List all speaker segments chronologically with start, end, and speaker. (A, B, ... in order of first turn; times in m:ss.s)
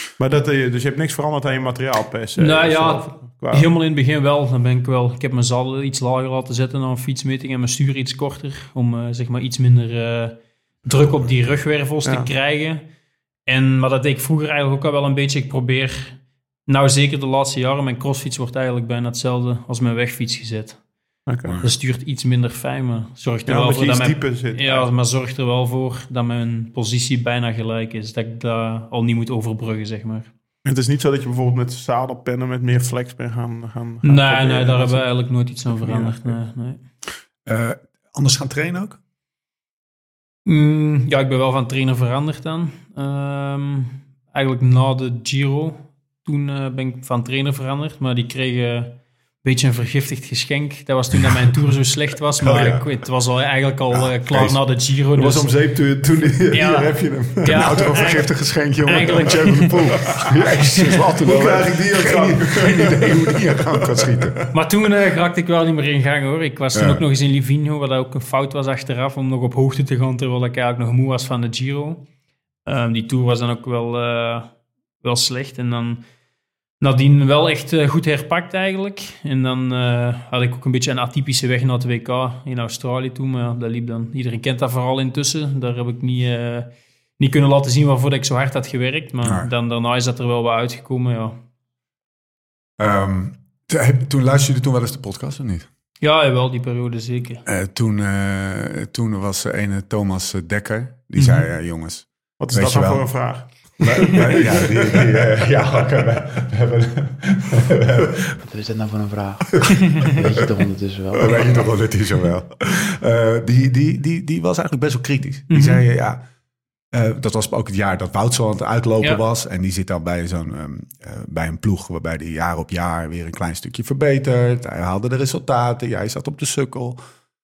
0:00.2-0:03.7 A
0:02.4-0:12.8 B
0:10.9-0:11.6 C
0:13.5-0:20.8 B
0:21.3-0:21.6 A
0:21.4-0:21.7 C
0:21.6-0:30.3 B
0:23.5-0:24.9 A
0:30.6-0:35.1 A
0:34.0-0:36.8 B
0:35.7-0:36.4 A
0:37.4-0:39.0 C
0:40.5-0:55.5 B
0:52.4-0:52.8 C
0:53.9-0:54.6 C
0:55.2-0:58.0 A
0:56.5-0:58.3 B
0:57.4-1:04.4 C
0:58.9-1:00.0 B
1:01.2-1:04.5 A
1:04.5-1:12.0 B
1:06.8-1:07.0 C
1:12.6-1:14.5 B
1:15.0-1:16.0 B
1:16.8-1:31.4 B
1:29.2-1:29.5 C
1:32.8-1:35.7 C
1:36.0-1:37.4 B
1:37.5-1:48.4 C
1:41.2-1:41.5 B
1:42.4-1:45.4 A
1:48.4-1:51.5 D
1:51.1-1:56.2 C
1:55.5-1:55.8 B
1:56.9-2:07.0 C